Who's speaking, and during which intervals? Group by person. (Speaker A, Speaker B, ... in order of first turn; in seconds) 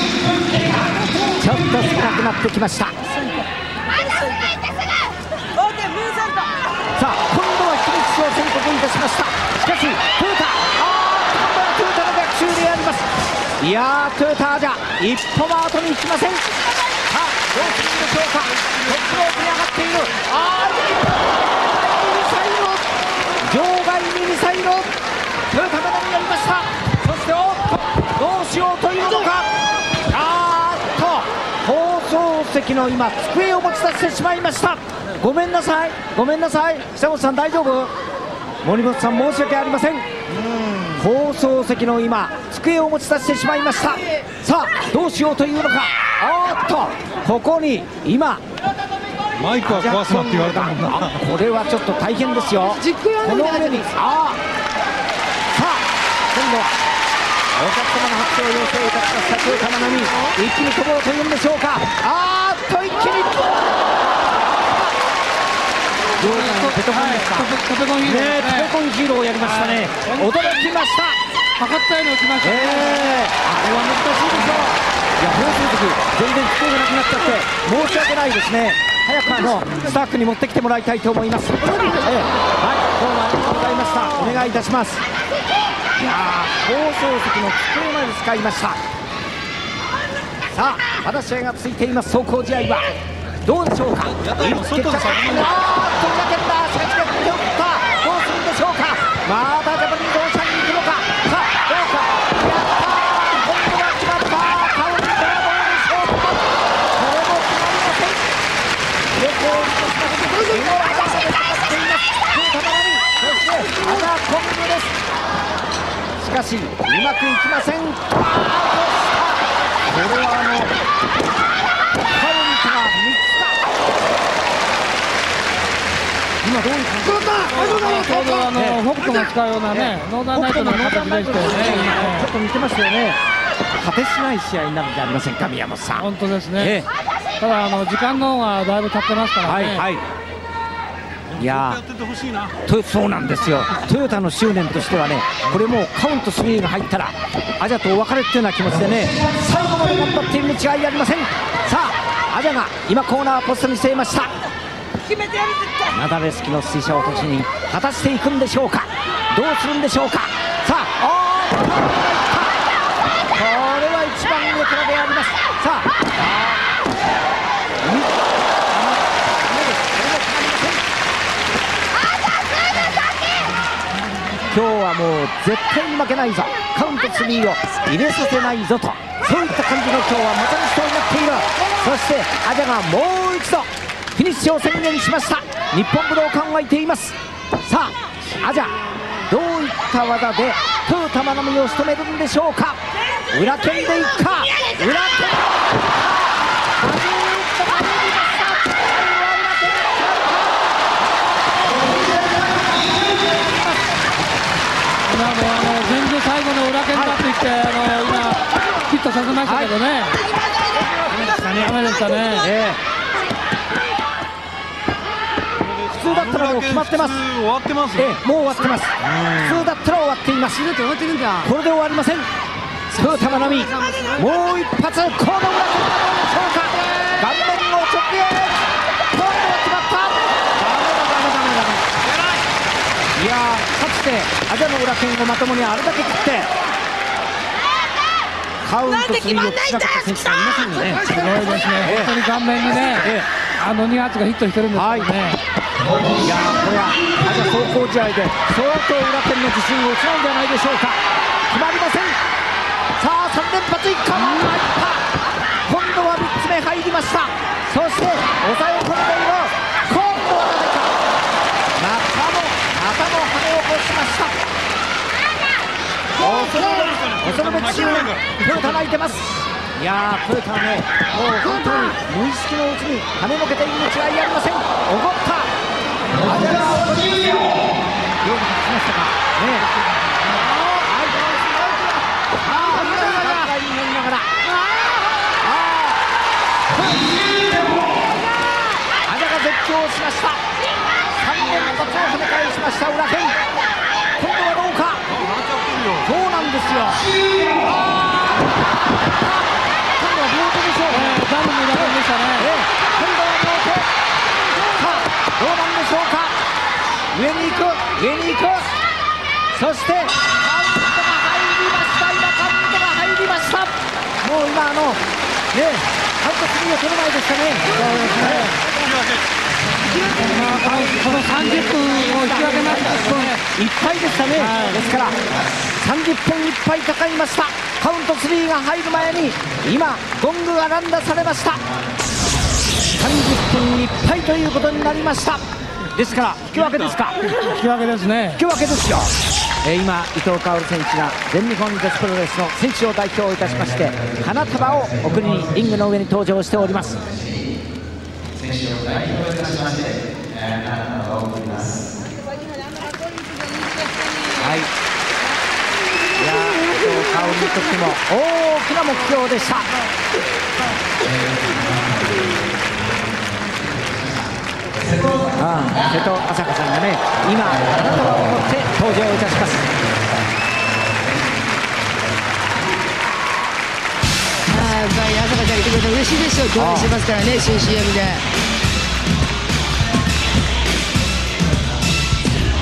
Speaker A: 1.2-3.0, 6.9-16.5, 17.1-22.9, 23.4-24.9, 25.5-29.5, 30.1-37.9, 38.6-40.1, 40.9-48.4, 49.6-54.4, 55.5-56.7, 57.5-63.6, 64.2-64.9, 66.2-71.2, 72.4-85.0, 86.0-88.8, 90.5-92.9, 93.4-108.2, 109.2-115.0, 116.2-120.7, 122.1-123.7, 126.4-128.9, 129.7-133.2, 133.8-136.9, 139.4-140.1, 141.3-141.8, 142.6-154.4, 155.8-162.7, 163.3-166.6, 167.8-170.8, 174.5-192.8, 193.3-203.7, 206.9-207.2, 209.4-209.7, 212.3-212.8, 215.9-217.2, 217.9-220.6, 221.4-222.3, 222.9-232.1, 233.2-236.5, 238.6-242.2, 242.9-243.3, 244.7-245.1, 246.1-252.2, 253.0-255.1, 255.7-260.9, 261.8-264.4, 266.2-275.5, 276.1-277.6, 278.2-279.7, 280.7-281.4, 282.4-284.4, 285.3-286.0, 286.7-287.9, 289.0-290.4, 291.1-293.4, 294.2-295.1, 296.0-297.1, 297.6-298.5, 299.9-303.9, 304.6-306.3, 307.1-308.7, 309.5-315.0, 315.5-318.5, 320.6-325.2, 325.8-331.6, 332.9-335.4, 335.9-337.2, 338.3-339.1, 339.6-347.1, 348.6-349.9, 350.5-351.4, 354.4-354.7, 356.1-359.7, 365.1-369.7, 376.5-376.9
Speaker B: 49.4-51.2, 94.2-95.6, 141.3-142.5, 215.6-218.1, 219.0-219.6, 266.2-268.5, 295.2-296.1
Speaker C: 52.7-53.9, 81.7-82.1, 220.6-221.5, 223.7-224.1, 374.5-378.2
Speaker D: 66.2-68.7, 69.4-70.4, 71.6-73.2, 127.4-132.3, 135.9-136.8, 137.4-139.8, 205.1-210.2, 211.5-212.5, 241.1-245.4, 300.9-302.5, 317.7-318.5, 320.2-323.4, 324.4-324.8, 337.4-338.4